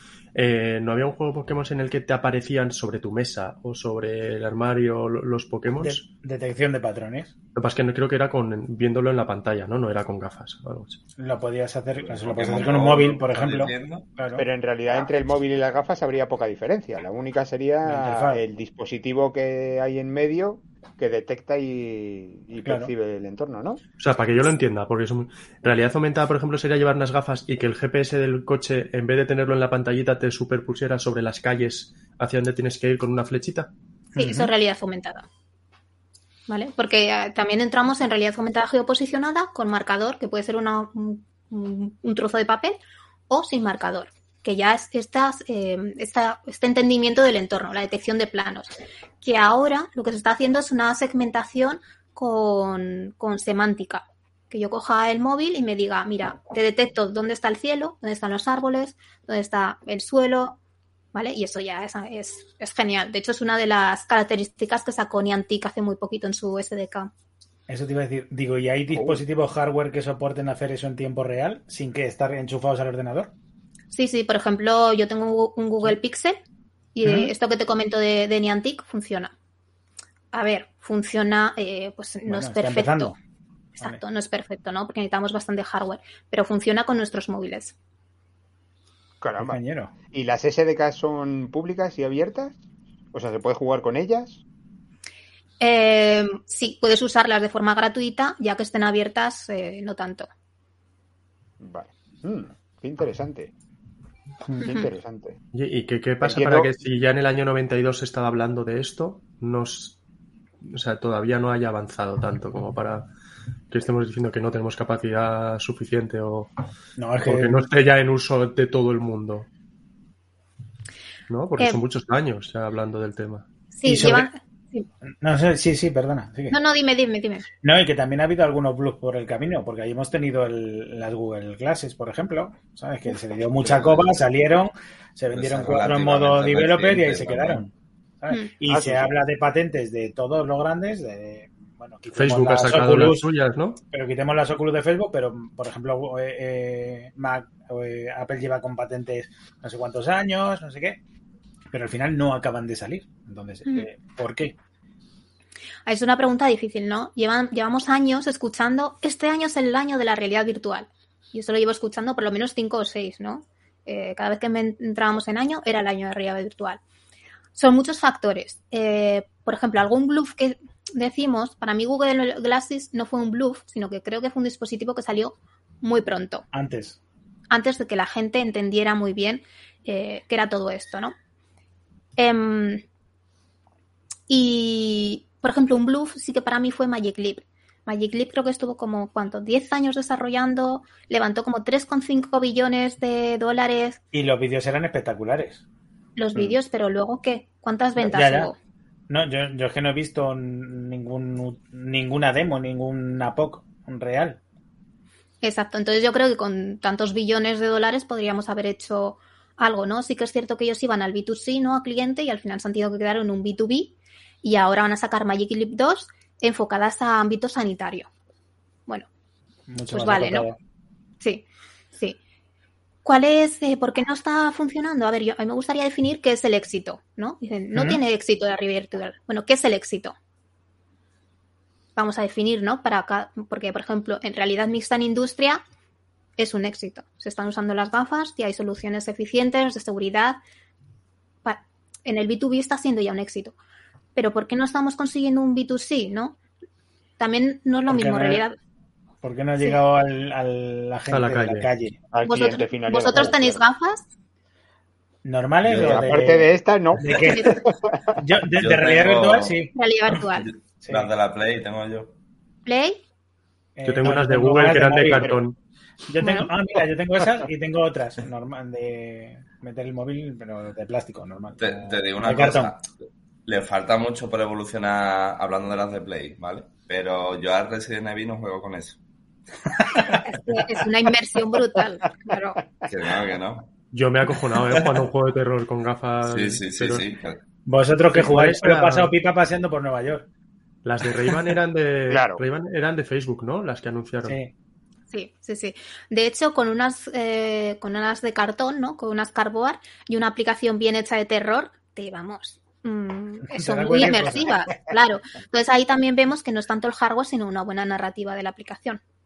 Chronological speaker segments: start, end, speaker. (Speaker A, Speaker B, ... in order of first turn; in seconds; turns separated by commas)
Speaker A: 0.3-6.0, Speaker B: 5.8-7.3, Speaker A: 7.5-11.0, Speaker B: 11.2-14.4, Speaker C: 12.0-14.1, Speaker D: 14.3-23.8, Speaker B: 17.8-18.4, Speaker B: 22.6-22.9, Speaker A: 24.0-33.7, Speaker B: 34.1-34.5, Speaker E: 34.1-35.2, Speaker E: 36.5-42.8, Speaker E: 43.3-60.6, Speaker E: 61.1-67.1, Speaker B: 67.7-73.3, Speaker D: 68.9-69.2, Speaker E: 73.9-76.4, Speaker E: 76.9-79.3, Speaker B: 77.0-77.3, Speaker E: 80.3-83.1, Speaker B: 82.3-83.1, Speaker E: 83.8-87.7, Speaker D: 89.2-89.6, Speaker B: 89.4-89.9, Speaker D: 90.1-92.5, Speaker D: 93.1-94.4, Speaker E: 95.6-100.3, Speaker D: 101.6-103.5, Speaker E: 104.6-104.9, Speaker D: 104.6-105.3, Speaker A: 105.5-110.0, Speaker D: 106.2-106.7, Speaker A: 110.6-113.1, Speaker A: 113.7-116.5, Speaker B: 117.0-117.7, Speaker A: 117.2-119.5, Speaker A: 121.3-123.4, Speaker E: 123.7-124.9, Speaker B: 123.8-124.3, Speaker B: 125.2-126.6, Speaker E: 126.5-127.4, Speaker B: 127.6-143.2, Speaker C: 133.6-134.1, Speaker C: 135.3-137.7, Speaker D: 138.7-139.1, Speaker A: 142.1-143.8, Speaker B: 143.9-151.0, Speaker B: 151.7-154.5, Speaker E: 155.9-166.8, Speaker E: 167.5-176.4, Speaker B: 176.5-177.0, Speaker E: 177.5-181.1, Speaker E: 182.2-182.8, Speaker E: 184.3-194.0, Speaker B: 194.1-195.6, Speaker E: 196.2-198.6, Speaker B: 198.0-198.5, Speaker B: 199.1-204.4, Speaker E: 205.4-218.1, Speaker B: 219.7-220.6, Speaker E: 219.9-220.5, Speaker E: 223.0-230.1, Speaker B: 227.7-228.0, Speaker E: 231.9-235.6, Speaker E: 236.4-240.4, Speaker E: 241.4-243.5, Speaker E: 244.2-246.3, Speaker E: 247.2-248.5, Speaker B: 247.9-248.4, Speaker B: 249.2-252.0, Speaker A: 251.1-251.7, Speaker D: 252.1-253.6, Speaker E: 252.2-254.0, Speaker B: 255.2-257.5, Speaker D: 255.7-258.2, Speaker E: 257.1-257.5, Speaker B: 258.2-259.7, Speaker C: 258.6-259.6, Speaker E: 259.7-260.5, Speaker C: 260.2-262.1, Speaker B: 260.8-261.1, Speaker E: 262.7-263.0, Speaker B: 263.8-265.4, Speaker A: 263.8-265.6, Speaker B: 266.1-272.7, Speaker E: 266.2-266.5, Speaker C: 271.6-272.9, Speaker C: 273.4-279.0, Speaker E: 280.2-282.6, Speaker C: 282.9-283.7, Speaker A: 283.9-287.0, Speaker C: 286.2-287.4, Speaker B: 287.6-290.3, Speaker A: 288.1-289.1, Speaker A: 290.8-294.4, Speaker D: 292.1-292.4, Speaker B: 294.2-294.5, Speaker E: 295.1-309.0, Speaker B: 303.5-304.6